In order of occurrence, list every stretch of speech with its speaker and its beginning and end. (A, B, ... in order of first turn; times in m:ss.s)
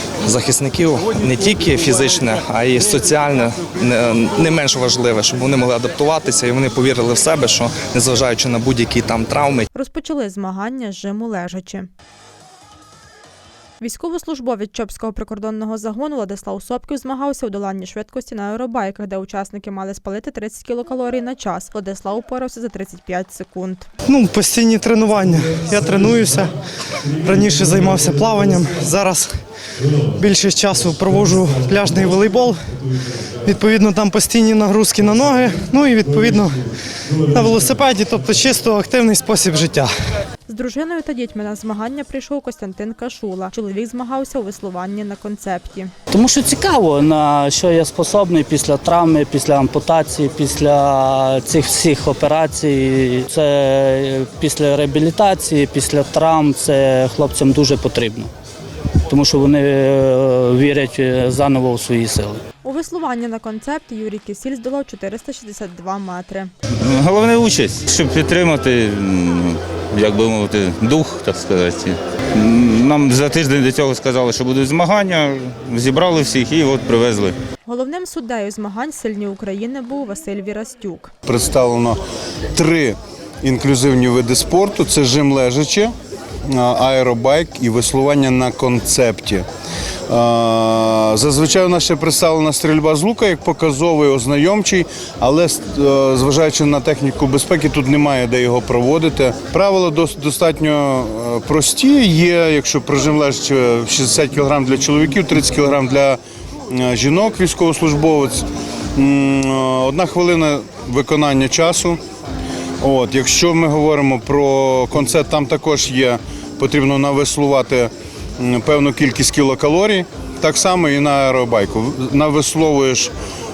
0:00.2-0:09.6 A
0:09.7-0:11.9 B
0:13.8-0:23.9 B
0:24.1-0:26.5 C
0:27.1-0:29.3 C
0:30.0-0:32.8 C
0:33.4-0:39.9 C
0:40.5-0:45.9 B
0:46.1-0:58.3 D
0:59.1-1:02.4 D
1:02.6-1:06.5 B
1:06.8-1:17.3 E
1:17.6-1:21.1 B
1:21.2-1:22.0 F
1:22.5-1:25.9 F
1:26.5-1:29.4 F
1:30.1-1:46.2 F
1:46.7-1:52.0 F
1:52.8-2:03.1 F